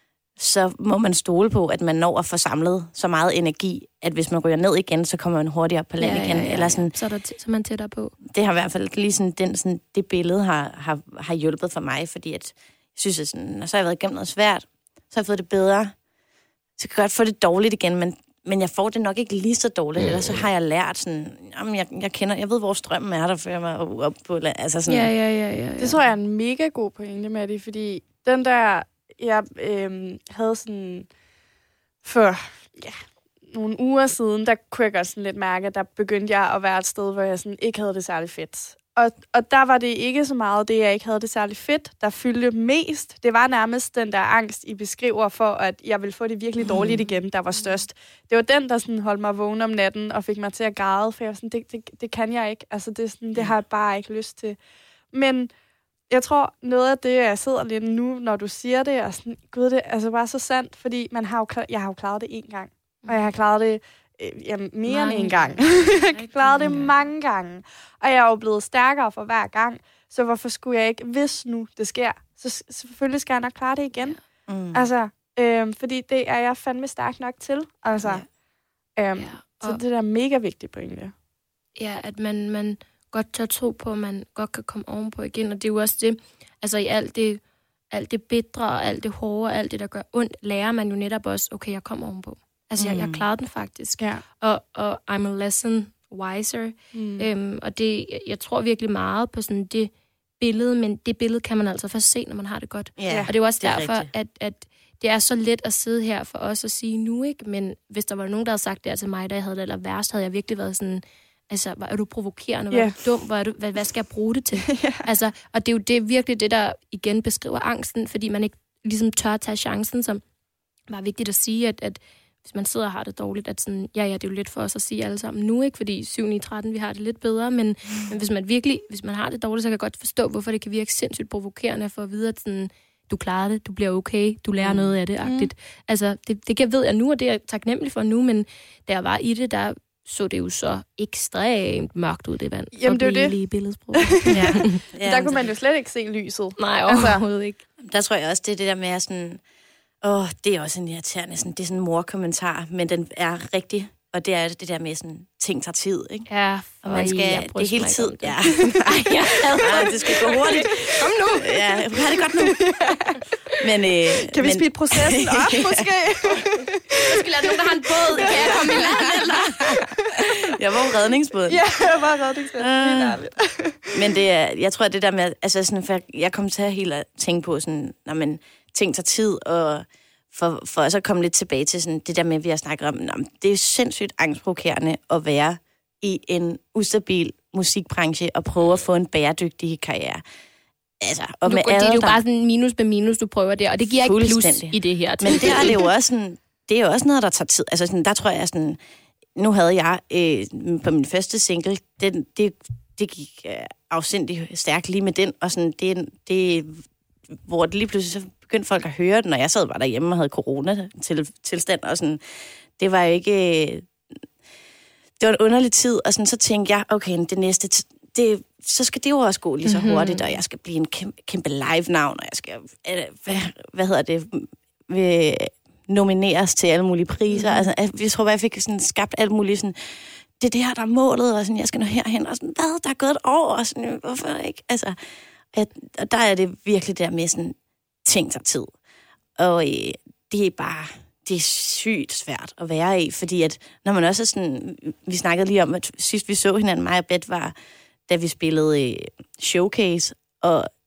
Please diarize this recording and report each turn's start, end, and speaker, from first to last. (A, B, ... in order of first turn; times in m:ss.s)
0:00.4-0:06.9 A
0:06.0-0:08.2 B
0:08.2-0:15.9 A
0:16.8-0:25.1 A
0:20.0-0:20.4 B
0:24.9-0:25.9 B
0:25.8-0:31.1 C
0:32.0-0:54.6 C
0:46.6-0:47.0 A
0:55.1-0:55.5 C
0:56.1-1:14.2 C
1:03.0-1:03.3 B
1:04.9-1:07.0 B
1:06.6-1:06.9 A
1:14.5-1:14.9 A
1:14.7-1:18.2 C
1:18.0-1:18.2 A
1:19.0-1:21.1 C
1:19.2-1:19.8 B
1:21.8-1:27.4 B
1:27.9-2:00.2 B
1:32.8-1:33.2 A
1:36.9-1:37.3 C
1:43.0-1:44.1 A
1:52.7-1:53.0 C
1:54.7-1:55.0 C
2:00.9-2:24.8 B
2:14.6-2:14.9 A
2:15.2-2:15.5 C
2:22.7-2:23.4 C
2:23.9-2:27.2 C
2:24.3-2:25.4 A
2:26.6-2:27.6 B
2:27.8-2:29.4 A
2:30.0-2:36.3 A
2:36.3-2:41.6 B
2:36.8-2:42.6 A
2:42.4-2:43.2 C
2:43.6-2:45.9 A
2:44.1-2:47.3 C
2:47.0-2:49.8 B
2:48.1-2:49.0 C
2:48.1-2:51.6 A
2:51.5-2:54.1 C
2:52.6-2:53.2 A
2:53.9-3:10.2 A
3:11.0-3:12.2 A
3:11.4-3:15.8 B
3:13.8-3:18.8 A
3:19.4-3:32.2 A
3:32.8-3:33.9 A
3:35.2-3:55.0 A
3:39.6-3:40.2 B
3:47.3-3:47.6 B
3:55.5-3:58.7 A
3:59.4-4:07.5 A
4:08.1-4:10.7 A